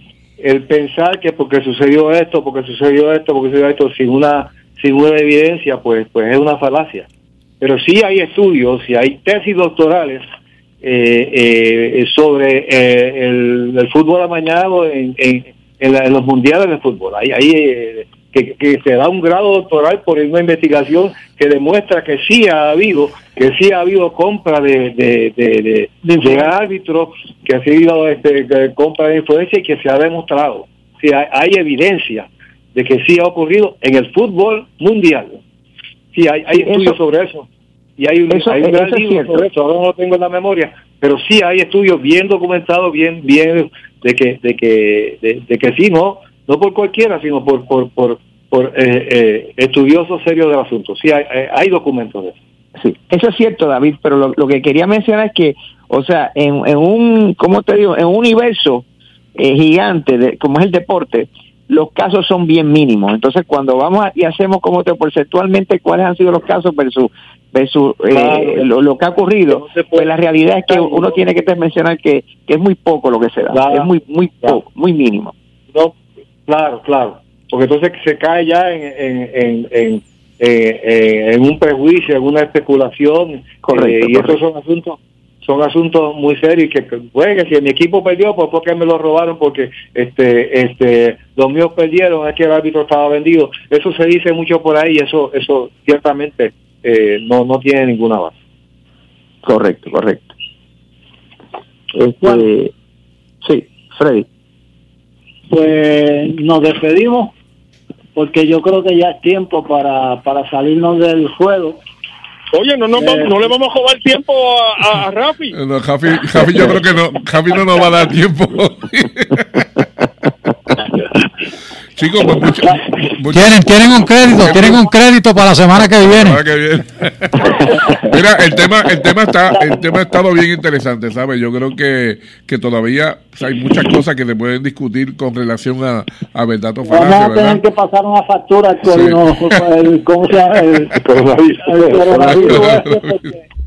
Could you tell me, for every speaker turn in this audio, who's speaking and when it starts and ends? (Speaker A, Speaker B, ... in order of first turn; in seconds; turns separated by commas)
Speaker A: 0.4-7.1, Speaker A: 7.6-10.2, Speaker A: 10.8-35.4, Speaker A: 36.1-52.4, Speaker B: 36.6-37.0, Speaker B: 38.3-39.5, Speaker B: 52.8-58.8, Speaker B: 59.4-75.3, Speaker A: 68.1-68.7, Speaker A: 69.5-70.1, Speaker A: 70.7-71.4, Speaker A: 73.5-74.6, Speaker A: 75.7-98.3, Speaker B: 83.7-84.4, Speaker B: 99.4-100.3, Speaker B: 101.9-102.7, Speaker B: 103.4-104.3, Speaker C: 105.5-107.3, Speaker C: 108.2-111.8, Speaker D: 112.5-115.6, Speaker C: 113.0-113.4, Speaker E: 115.5-119.8, Speaker E: 122.0-124.9, Speaker F: 123.3-126.4, Speaker E: 125.8-137.6, Speaker C: 136.8-141.0, Speaker E: 138.8-139.7, Speaker A: 141.0-142.7, Speaker C: 141.6-143.4, Speaker E: 142.2-143.2